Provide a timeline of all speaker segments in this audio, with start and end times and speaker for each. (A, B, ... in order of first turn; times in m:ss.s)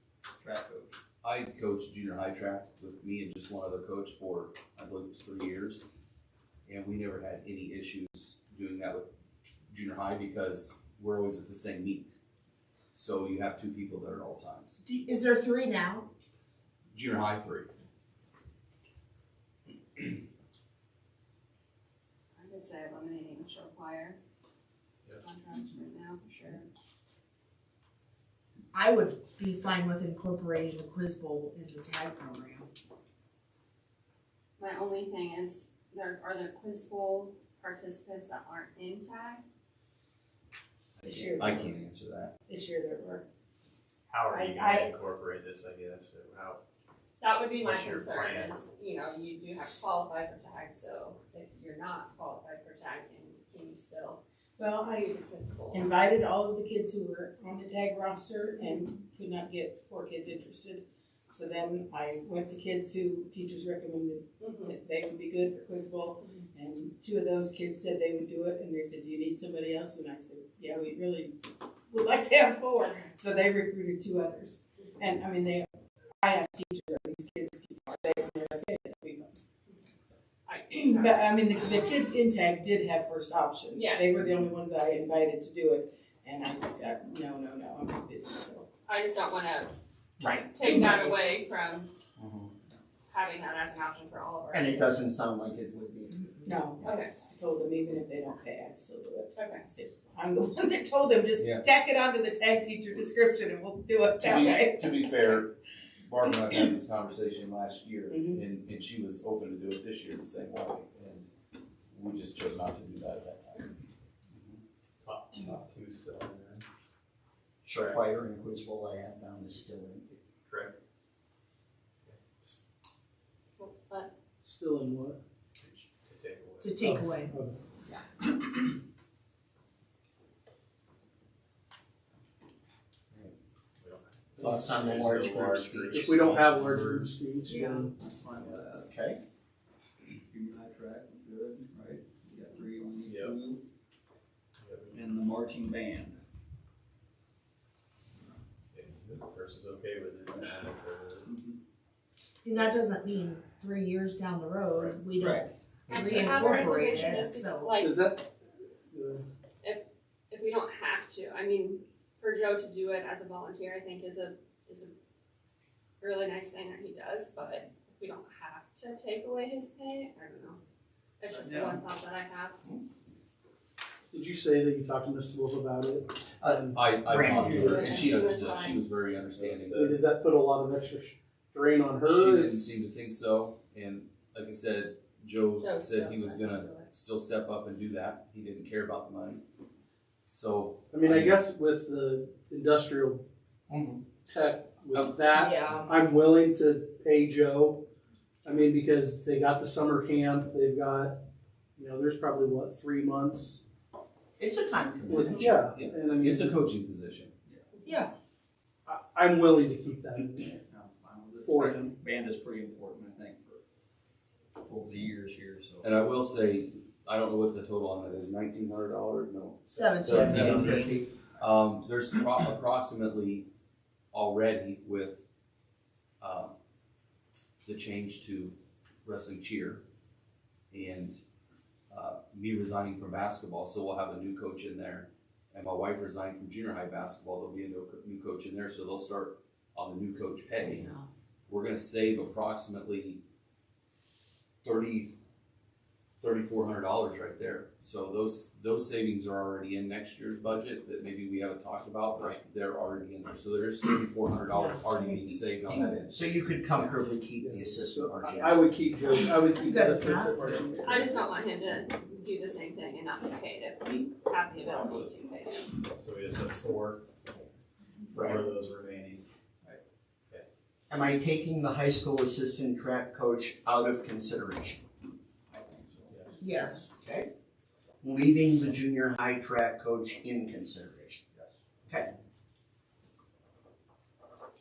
0:00.4-0:01.0 A
0:01.2-0:05.8 B
0:06.7-0:09.1 B
0:09.7-0:12.2 B
0:12.9-0:14.8 B
0:14.8-0:16.0 C
0:16.9-0:17.7 B
0:22.4-0:24.2 D
0:23.2-0:23.9 C
0:25.3-0:26.5 C
0:25.3-0:26.7 D
0:28.7-0:32.7 C
0:34.6-0:39.4 D
0:41.0-0:42.3 B
0:41.0-0:41.8 E
0:42.5-0:43.2 E
0:44.1-0:46.6 F
0:44.3-0:44.9 E
0:47.2-0:48.8 C
0:47.2-0:54.2 D
0:47.6-0:48.6 F
0:54.6-0:55.2 E
0:55.0-0:55.8 D
0:55.7-1:11.4 E
1:11.9-1:15.7 E
1:16.2-1:19.4 E
1:20.5-1:21.2 D
1:20.7-1:28.6 E
1:23.8-1:24.1 D
1:28.9-1:29.7 D
1:29.1-1:29.4 C
1:30.2-1:31.0 G
1:30.6-1:31.9 D
1:30.7-1:31.8 C
1:32.2-1:32.5 G
1:33.1-1:34.8 D
1:33.3-1:34.7 C
1:34.5-1:36.3 G
1:36.4-1:45.1 E
1:41.4-1:41.6 B
1:44.2-1:51.3 B
1:48.1-1:48.4 E
1:51.9-1:53.7 B
1:54.3-1:54.6 G
1:55.0-1:56.6 F
1:57.6-2:00.1 G
1:57.8-1:58.1 F
2:00.4-2:00.8 F
2:02.0-2:02.6 F
2:03.6-2:04.1 D
2:04.4-2:05.2 H
2:05.6-2:06.8 F
2:06.6-2:07.3 C
2:06.8-2:07.6 H
2:13.8-2:17.2 F
2:14.4-2:16.1 G
2:15.9-2:17.9 H
2:17.8-2:18.9 A
2:18.4-2:18.6 F
2:18.9-2:19.2 G
2:20.3-2:23.6 A
2:23.0-2:23.4 F
2:24.6-2:25.4 F
2:24.9-2:26.2 A
2:28.7-2:31.3 F
2:31.2-2:31.6 A
2:32.4-2:37.9 C
2:35.2-2:35.5 A
2:36.0-2:37.8 D
2:37.8-2:38.3 H
2:38.9-2:39.2 H
2:40.3-2:41.6 C
2:40.3-2:44.9 D
2:42.2-2:42.7 C
2:43.3-2:43.8 C
2:46.0-2:50.5 D
2:46.0-2:46.6 C
2:47.2-2:50.6 C
2:51.2-2:52.5 D
2:51.2-2:52.5 C
2:51.4-2:51.8 A
2:54.1-2:58.1 H
2:56.4-2:57.9 G
2:56.8-2:59.8 B
2:57.6-2:58.7 C
2:59.2-3:00.0 F
2:59.7-3:02.6 H
3:02.0-3:09.4 B
3:05.6-3:06.9 C
3:10.3-3:11.4 B
3:10.9-3:13.2 H
3:13.7-3:14.0 G
3:14.3-3:17.8 H
3:15.4-3:15.9 C
3:18.4-3:21.2 H
3:21.8-3:23.6 H
3:24.4-3:25.7 G
3:25.1-3:26.6 H
3:25.7-3:27.3 B
3:28.9-3:30.6 H
3:30.6-3:33.6 A
3:31.4-3:32.0 H
3:34.6-3:35.9 A
3:35.8-3:43.5 B
3:39.7-3:40.9 C
3:40.1-3:41.1 G
3:44.1-3:45.2 B
3:46.2-3:46.5 B
3:47.6-3:49.8 B
3:50.7-3:51.2 B
3:51.9-4:00.9 B
4:01.5-4:03.2 B
4:04.6-4:05.1 B
4:06.2-4:16.2 B
4:15.9-4:18.7 G
4:17.4-4:21.0 H
4:19.5-4:25.6 C
4:20.2-4:21.3 F
4:20.9-4:25.7 D
4:24.6-4:25.1 F
4:25.9-4:27.5 F
4:28.1-4:29.2 F
4:28.1-4:28.5 G
4:30.9-4:34.8 G
4:35.5-4:36.6 A
4:36.1-4:36.4 F
4:36.4-4:37.0 C
4:36.9-4:37.3 G
4:38.0-4:41.2 G